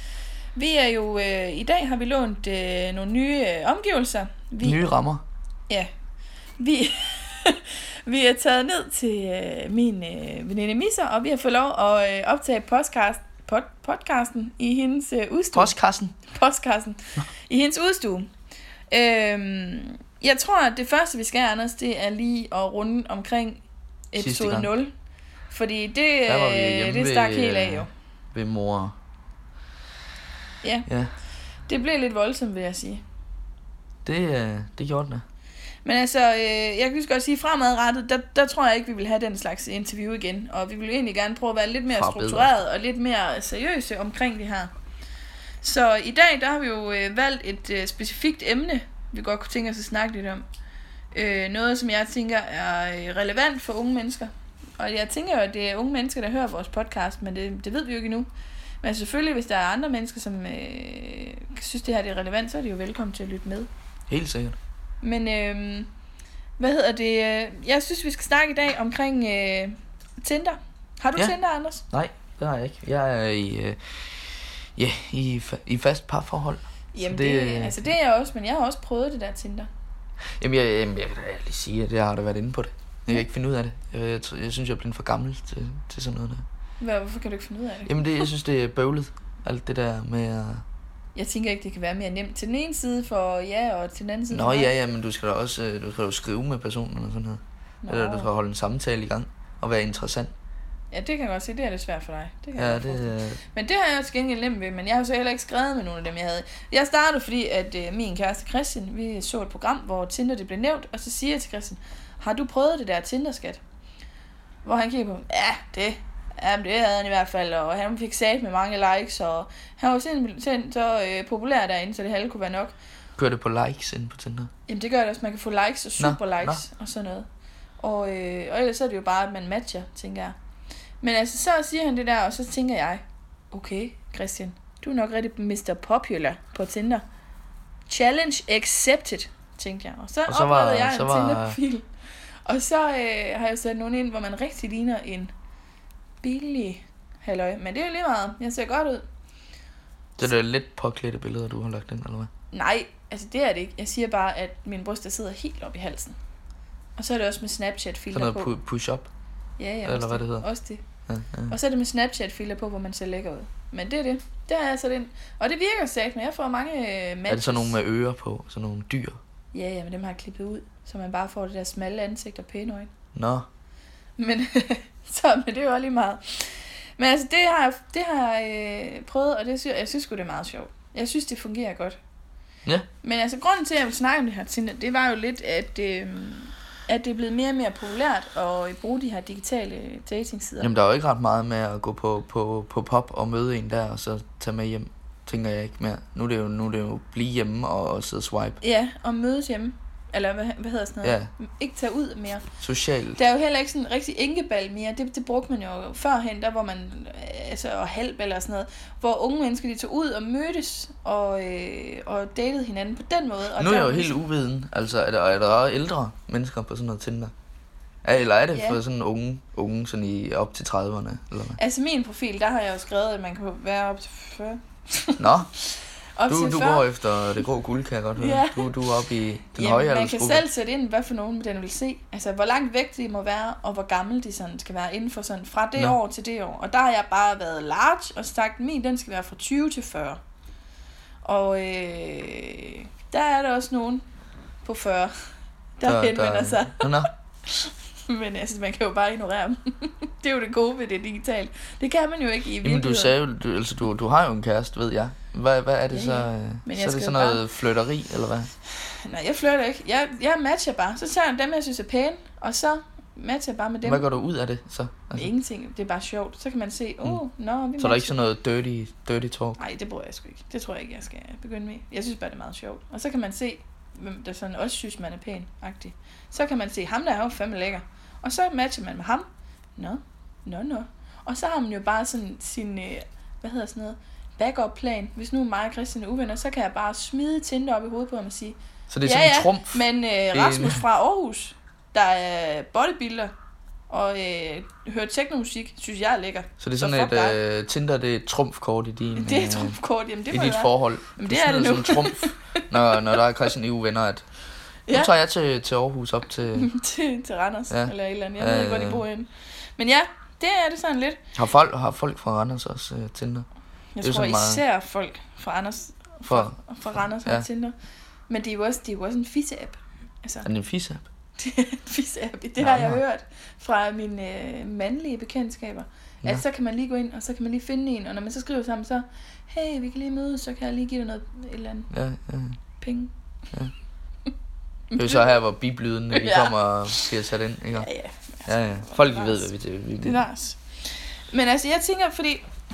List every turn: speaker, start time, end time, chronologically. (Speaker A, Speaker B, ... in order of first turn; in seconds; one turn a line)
Speaker A: 0.5-4.8
Speaker B: 4.6-5.2
Speaker A: 6.6-15.7
Speaker B: 15.5-16.1
Speaker A: 16.3-18.3
Speaker A: 18.9-23.6
Speaker A: 24.1-24.9
Speaker B: 24.1-24.7
Speaker A: 25.5-27.9
Speaker B: 26.3-28.9
Speaker B: 30.9-31.1
Speaker A: 31.7-33.0
Speaker B: 34.0-35.2
Speaker A: 35.8-44.7
Speaker B: 41.9-42.5
Speaker A: 45.6-50.4
Speaker A: 51.1-58.3
Speaker A: 58.8-63.7
Speaker B: 64.1-64.6
Speaker A: 65.0-65.9
Speaker A: 66.6-71.8
Speaker B: 71.9-77.9
Speaker A: 76.9-79.7
Speaker B: 80.4-86.4
Speaker A: 86.8-88.0
Speaker B: 87.8-90.6
Speaker A: 91.1-94.7
Speaker B: 94.3-100.3
Speaker A: 97.8-98.3
Speaker A: 100.9-113.6
Speaker B: 102.5-103.4
Speaker A: 114.6-122.7
Speaker B: 123.2-124.5
Speaker A: 124.7-127.2
Speaker B: 126.0-126.6
Speaker A: 127.8-130.3
Speaker A: 131.0-137.0
Speaker A: 137.9-141.9
Speaker B: 140.3-141.6
Speaker A: 142.4-145.3
Speaker A: 146.2-149.0
Speaker B: 150.2-152.3
Speaker A: 152.5-156.2
Speaker A: 157.0-158.5
Speaker B: 158.1-159.1
Speaker A: 159.6-160.8
Speaker B: 159.8-160.4
Speaker B: 161.1-161.6
Speaker A: 161.5-167.8
Speaker B: 167.3-169.2
Speaker A: 169.5-172.9
Speaker B: 173.1-173.5
Speaker A: 174.2-182.0
Speaker A: 183.0-190.7
Speaker B: 190.6-198.6
Speaker A: 198.6-202.4
Speaker B: 201.0-201.3
Speaker B: 202.6-203.2
Speaker A: 203.2-214.2
Speaker B: 213.6-217.3
Speaker B: 218.0-221.6
Speaker A: 218.5-218.8
Speaker A: 221.6-225.3
Speaker B: 225.2-225.5
Speaker A: 226.2-226.9
Speaker B: 226.3-230.4
Speaker A: 228.2-228.8
Speaker A: 229.5-240.2
Speaker A: 241.2-244.0
Speaker A: 244.6-245.1
Speaker A: 245.8-253.1
Speaker B: 245.8-247.1
Speaker B: 252.6-258.5
Speaker A: 255.9-257.4
Speaker A: 258.8-264.0
Speaker B: 263.8-265.3
Speaker A: 265.1-268.2
Speaker B: 267.8-269.6
Speaker A: 269.6-279.2
Speaker A: 279.8-293.3
Speaker B: 288.9-289.8
Speaker B: 290.3-290.8
Speaker A: 293.9-297.4
Speaker B: 296.6-299.8
Speaker A: 299.2-303.2
Speaker B: 300.3-304.2
Speaker B: 304.9-306.7
Speaker A: 306.5-311.2
Speaker B: 307.7-309.0
Speaker B: 311.3-313.4
Speaker A: 313.9-317.7
Speaker B: 314.0-314.6
Speaker B: 316.2-316.6
Speaker A: 318.3-320.5
Speaker B: 320.4-321.1
Speaker A: 321.4-331.9
Speaker B: 322.6-323.0
Speaker B: 331.9-332.6
Speaker A: 332.8-333.1
Speaker A: 334.9-335.3
Speaker B: 334.9-337.9
Speaker A: 336.1-337.1
Speaker A: 337.7-340.6
Speaker B: 338.5-340.2
Speaker A: 341.3-342.4